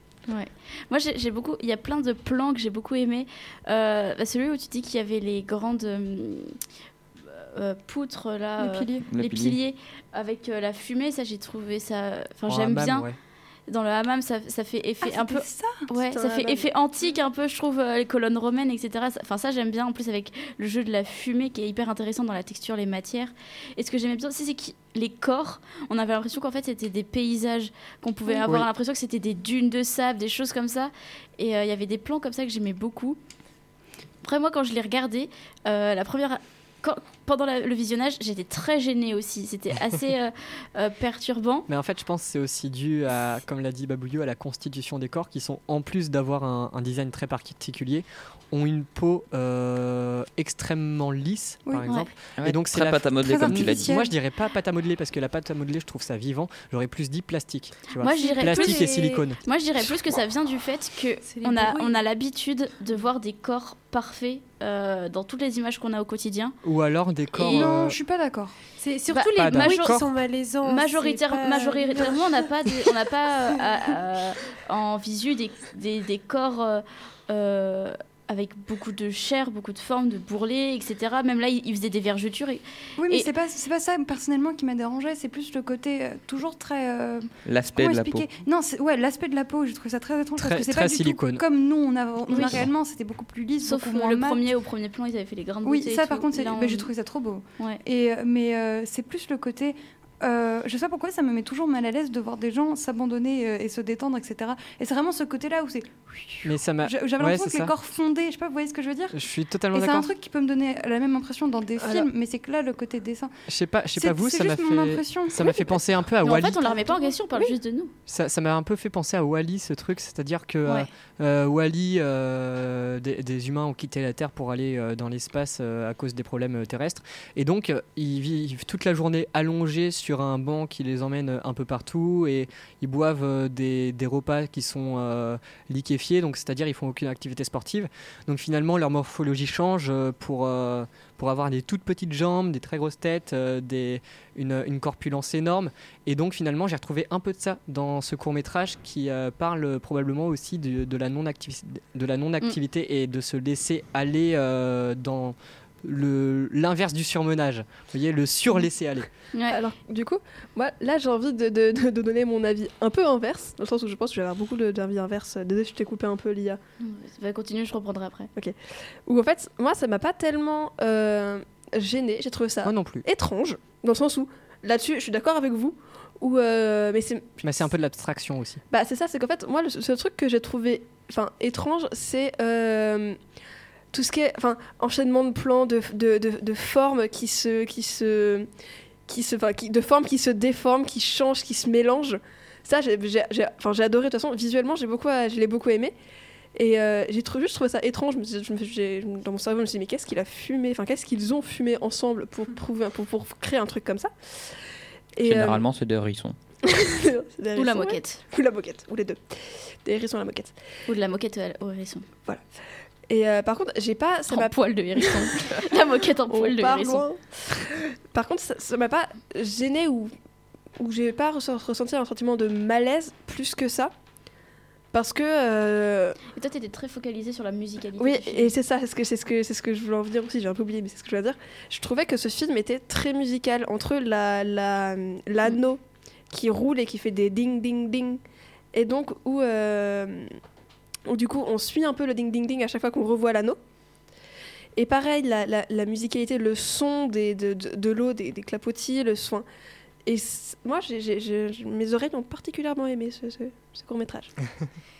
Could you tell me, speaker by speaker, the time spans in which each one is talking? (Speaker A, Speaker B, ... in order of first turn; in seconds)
Speaker A: 0.3-6.6, 7.3-13.1, 13.7-33.2, 34.2-41.7, 58.0-66.5, 69.1-70.0, 70.6-83.3, 92.3-92.7, 93.6-96.9, 116.2-117.9, 159.3-159.6, 166.8-168.3, 207.6-208.2, 210.8-212.1, 214.3-217.1, 226.3-228.5
Speaker B: 8.6-9.0, 15.0-15.9, 51.6-52.1, 53.2-54.1, 67.4-68.5, 83.0-94.4, 95.6-113.3, 114.0-115.8
Speaker C: 9.1-9.6, 52.4-54.0, 87.5-88.3, 205.2-206.4
Speaker D: 12.5-13.2, 41.7-59.4, 66.6-68.0, 69.3-70.1, 90.4-91.4, 106.4-107.7, 109.1-110.1, 113.5-116.7, 118.1-159.1, 172.6-173.0, 177.4-178.6
Speaker E: 16.1-16.6, 58.1-59.2, 111.8-112.1, 159.5-166.6, 168.4-177.4, 178.7-183.2, 183.9-188.5, 189.1-195.9, 196.5-205.6, 206.6-210.5, 213.1-215.7, 216.3-220.1, 220.8-223.9, 224.9-226.2, 228.0-238.2, 238.7-240.3, 241.1-243.6, 244.8-249.4, 250.0-254.3
Speaker F: 61.2-62.0, 68.8-72.3